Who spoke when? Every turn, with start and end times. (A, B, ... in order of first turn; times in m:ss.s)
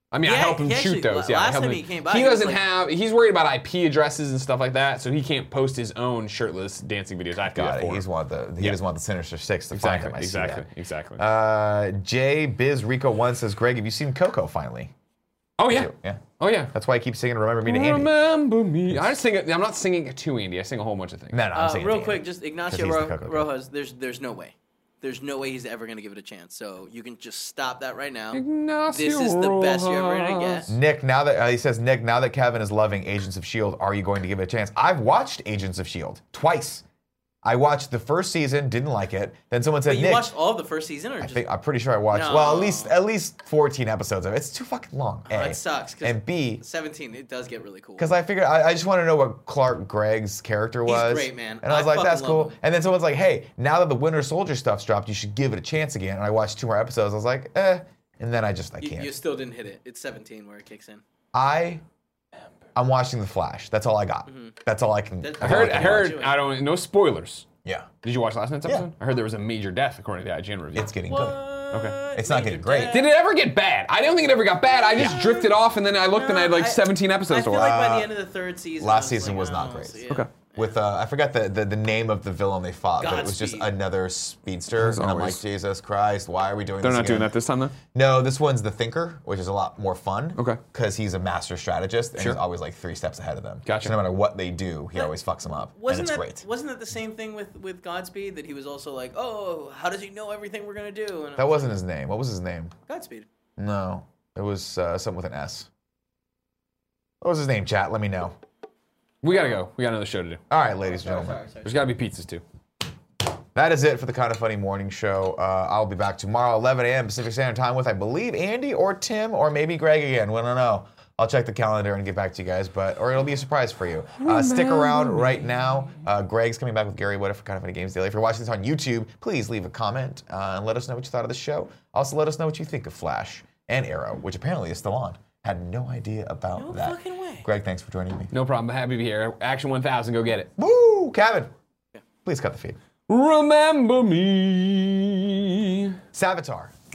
0:00.1-0:08.1 A
0:00.2-0:02.6 B
0:07.5-0:14.9 C
0:09.7-0:11.2 A
0:15.6-0:16.7 A
0:15.7-0:18.1 C
0:17.7-0:21.4 A
0:21.3-0:23.5 C
0:21.5-0:30.7 B
0:28.3-0:30.7 A
0:30.7-0:36.8 C
0:37.4-0:40.3 C
0:39.9-0:41.4 B
0:41.2-0:46.6 C
0:42.1-0:42.9 B
0:45.3-0:48.1 B
0:48.0-0:59.2 C
0:50.8-0:52.6 B
0:58.8-1:01.0 B
1:01.3-1:01.8 C
1:02.8-1:06.2 C
1:04.3-1:04.6 B
1:05.2-1:06.5 B
1:05.4-1:07.5 A
1:08.0-1:10.9 A
1:08.6-1:08.9 C
1:10.8-1:11.4 C
1:11.1-1:13.2 B
1:11.7-1:12.0 A
1:12.1-1:13.0 C
1:12.9-1:17.8 A
1:14.7-1:15.6 B
1:16.1-1:20.7 B
1:17.5-1:18.1 C
1:18.8-1:20.0 C
1:20.6-1:27.3 C
1:23.0-1:23.7 B
1:24.7-1:25.4 A
1:26.8-1:27.8 A
1:27.9-1:36.4 C
1:30.4-1:30.6 A
1:33.7-1:34.0 A
1:35.7-1:41.7 B
1:41.4-1:42.8 C
1:42.9-1:43.3 B
1:43.6-1:45.7 C
1:47.2-1:48.4 C
1:49.2-1:50.4 A
1:50.5-1:51.4 C
1:50.8-1:51.9 B
1:51.6-1:52.4 A
1:53.5-2:18.3 C
2:04.2-2:05.7 A
2:16.6-2:17.4 B
2:18.3-2:20.5 A
2:20.6-2:21.5 C
2:22.2-2:22.8 C
2:23.1-2:26.0 A
2:26.1-2:26.7 C